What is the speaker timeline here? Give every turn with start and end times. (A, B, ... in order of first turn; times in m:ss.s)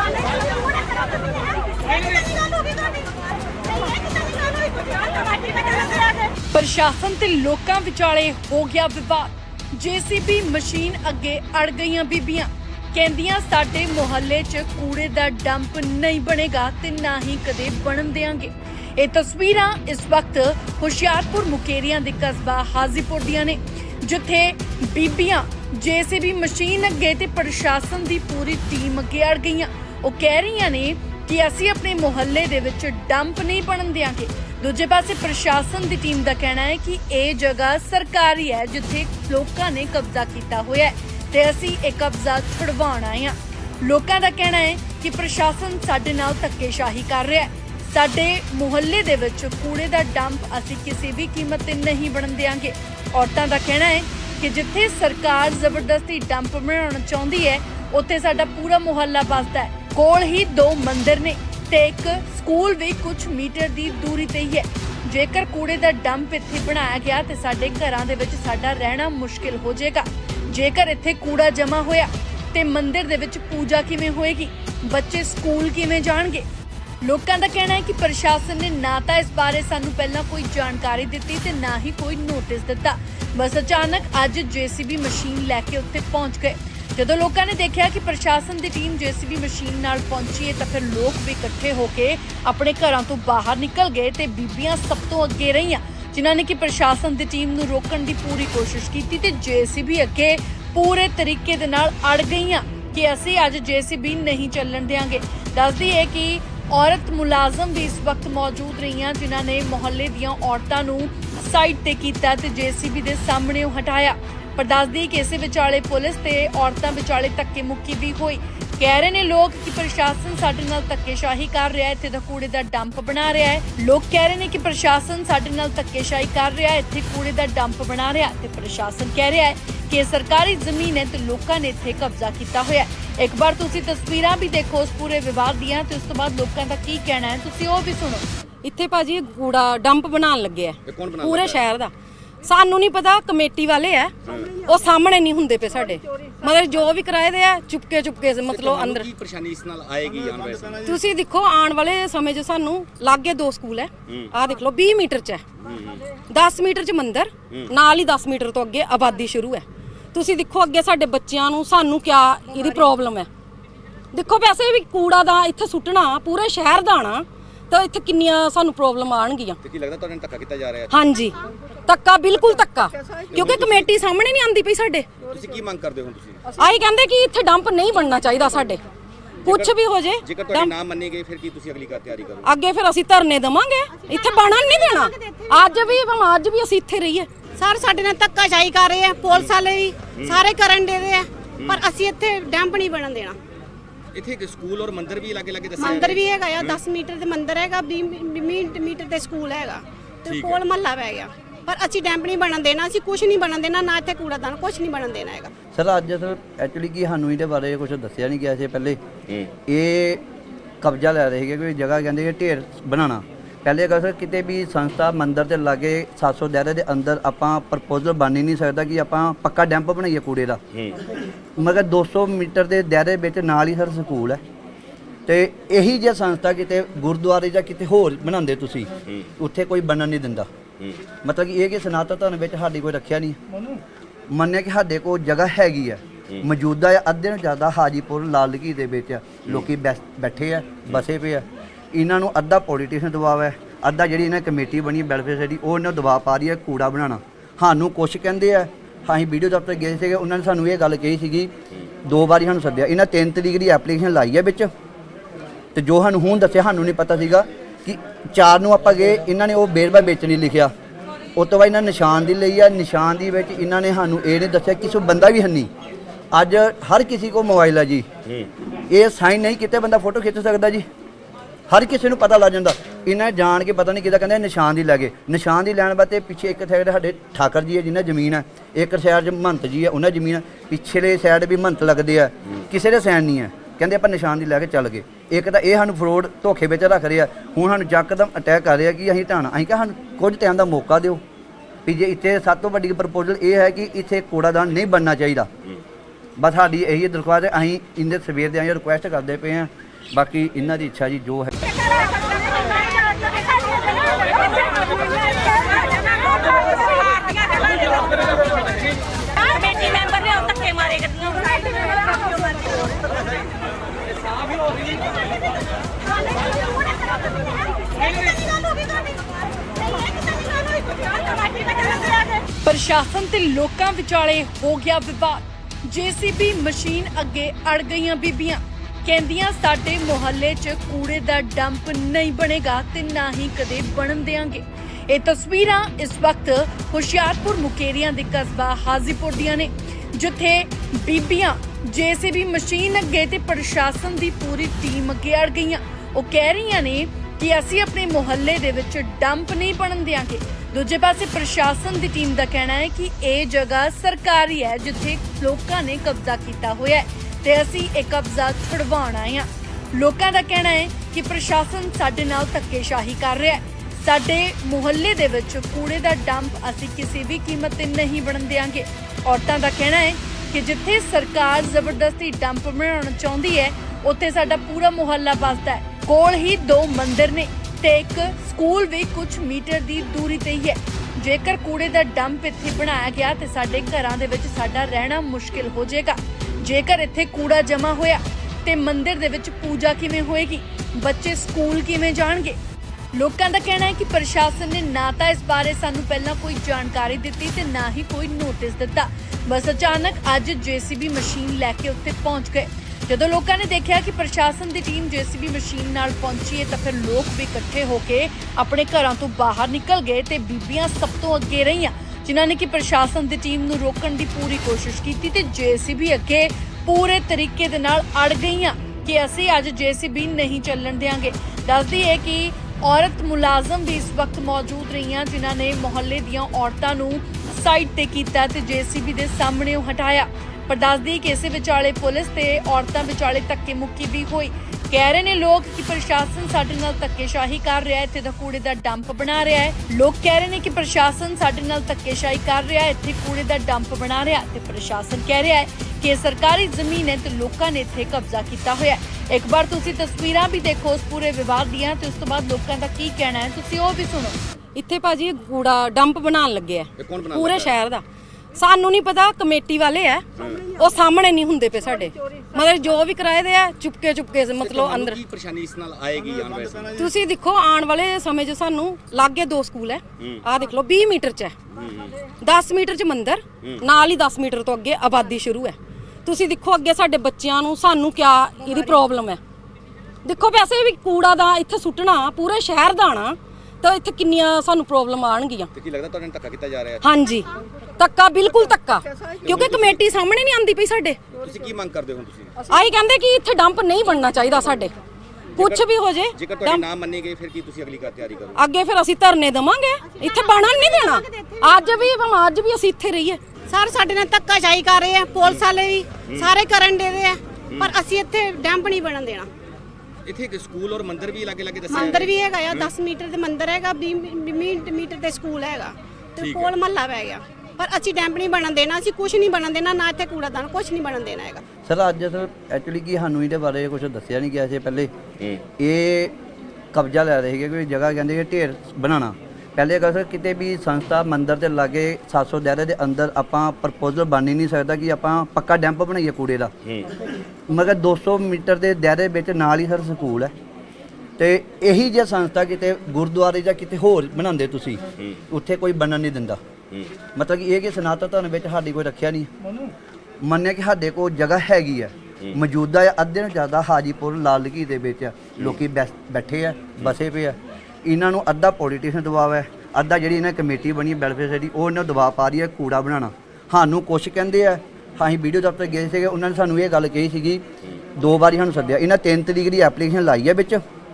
0:06.5-1:16.5 A
1:17.0-2:18.2 A
2:18.6-2:21.9 B
2:20.9-2:21.6 C
2:22.4-2:29.1 B
2:24.3-2:24.6 C
2:28.5-2:31.0 C
2:30.8-2:35.4 B
2:35.6-2:36.1 C
2:36.3-2:43.3 B
2:44.1-2:49.6 B
2:49.6-2:51.0 C
2:50.9-2:55.1 B
2:53.3-2:53.9 C
2:55.3-2:56.6 C
2:56.6-2:58.8 B
2:59.4-3:00.7 B
2:59.4-3:02.5 C
3:02.4-3:07.3 B
3:07.6-3:13.4 D
3:14.1-3:16.8 C
3:15.8-3:25.5 D
3:20.3-3:20.6 C
3:25.7-3:29.0 E
3:29.7-3:30.2 E
3:30.8-3:40.6 E
3:41.6-3:44.4 E
3:45.3-3:50.5 E
3:51.2-3:53.4 E
3:54.3-4:11.5 E
4:12.1-4:14.7 E
4:15.8-4:20.7 E
4:21.4-4:25.7 E
4:26.3-4:28.1 E
4:28.9-4:30.9 E
4:31.7-4:51.2 E
4:51.8-4:55.5 E
4:56.4-5:01.5 E
5:09.5-5:11.4 B
5:22.6-6:32.6 A
6:33.1-7:34.4 A
7:34.8-7:38.0 B
7:37.0-7:37.7 C
7:38.6-7:45.2 B
7:40.4-7:40.7 C
7:44.6-7:47.1 C
7:47.0-7:51.6 B
7:50.2-7:50.4 C
7:51.7-7:52.2 C
7:52.4-7:59.4 B
8:00.2-8:05.7 B
8:05.8-8:07.1 C
8:07.0-8:11.2 B
8:09.4-8:10.0 C
8:11.4-8:12.6 C
8:12.7-8:14.9 B
8:15.6-8:16.8 B
8:15.6-8:15.8 C
8:16.4-8:18.6 C
8:18.6-8:23.4 B
8:23.7-8:29.5 D
8:30.3-8:32.9 C
8:31.9-8:41.6 D
8:36.4-8:36.7 C
8:41.9-8:45.1 E
8:45.8-8:46.3 E
8:46.9-8:56.7 E
8:57.7-9:00.5 E
9:01.4-9:06.6 E
9:07.4-9:09.5 E
9:10.4-9:27.6 E
9:28.2-9:30.8 E